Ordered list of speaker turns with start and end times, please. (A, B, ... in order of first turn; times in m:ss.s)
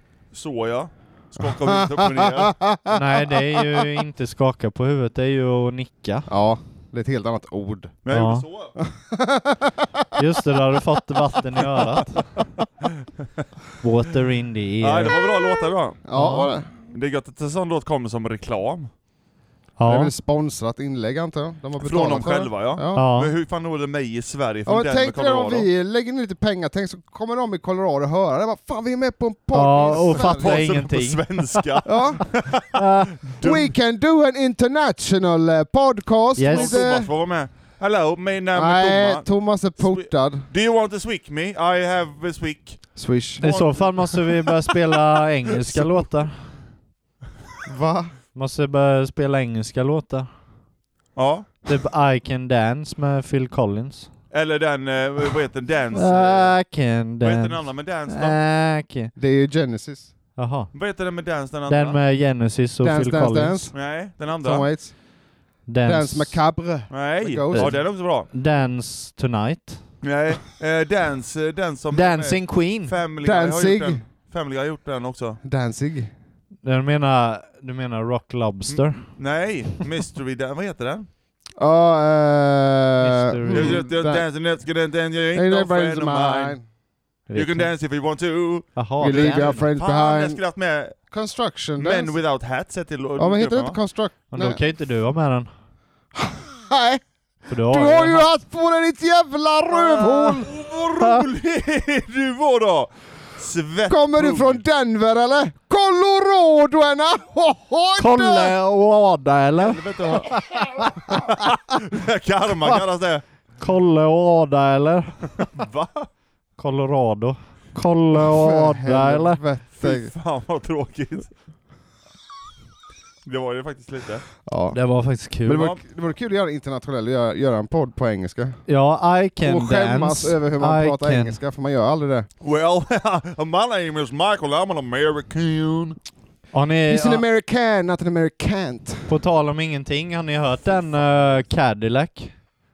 0:00.3-0:02.6 A
0:01.4-0:03.6 B
0:02.9-0:06.3 C
0:06.3-0:08.0 B
0:08.0-0:08.7 A
0:08.1-0:08.5 C
0:08.8-0:10.1 B
0:10.2-0:12.3 C
0:13.8-0:15.2 C
0:14.8-0:16.0 A
0:16.0-0:16.7 B
0:16.1-0:16.5 C
0:16.9-0:18.9 A
0:19.8-0:20.1 C
0:19.8-0:23.1 B
0:21.8-0:25.7 A
0:22.9-0:23.3 C
0:24.6-0:30.6 B
0:29.5-0:31.8 C
0:29.9-0:33.7 A
0:31.8-0:32.2 B
0:32.7-0:33.2 C
0:33.4-0:37.1 B
0:36.4-0:36.8 C
0:36.4-0:44.3 A
0:38.5-0:40.5 B
0:42.9-0:43.5 B
0:43.4-0:46.5 C
0:45.6-0:46.1 A
0:47.6-0:48.1 B
0:48.3-0:50.3 C
0:51.1-0:51.5 A
0:51.6-0:54.1 C
0:54.3-0:56.6 A
0:55.9-0:59.1 C
0:57.2-0:58.4 A
0:59.2-1:00.1 B
1:00.4-1:00.7 C
1:00.7-1:02.0 A
1:01.7-1:03.7 C
1:02.8-1:05.0 B
1:03.7-1:04.7 A
1:05.7-1:06.4 C
1:05.8-1:07.8 B
1:06.9-1:08.3 A
1:07.5-1:09.9 C
1:10.0-1:15.4 A
1:11.9-1:12.9 C
1:13.2-1:14.0 B
1:15.4-1:16.1 B
1:16.6-1:19.2 C
1:18.7-1:21.1 A
1:21.6-1:24.3 B
1:23.0-1:23.8 C
1:23.5-1:26.6 A
1:25.3-1:26.6 B
1:27.3-1:27.7 C
1:27.3-1:31.0 A
1:28.7-1:29.7 C
1:29.0-1:30.4 B
1:31.1-1:32.2 B
1:31.7-1:33.8 A
1:33.2-1:34.6 B
1:34.3-1:35.5 C
1:36.1-1:40.5 B
1:37.5-1:38.3 C
1:39.7-1:44.6 A
1:40.9-1:41.2 C
1:43.9-1:48.5 B
1:48.0-1:51.5 C
1:49.6-1:50.3 A
1:51.7-1:53.2 A
1:53.6-1:55.4 C
1:55.4-1:56.1 A
1:56.6-1:59.4 C
1:58.1-2:00.1 B
1:59.8-2:01.3 A
2:03.2-2:04.3 A
2:04.4-2:04.8 B
2:04.7-2:05.7 C
2:05.4-2:08.6 B
2:05.5-2:05.8 A
2:08.7-2:11.4 C
2:09.4-2:12.3 B
2:12.4-2:16.0 A
2:16.5-2:17.2 C
2:16.9-2:19.2 B
2:19.1-2:22.4 C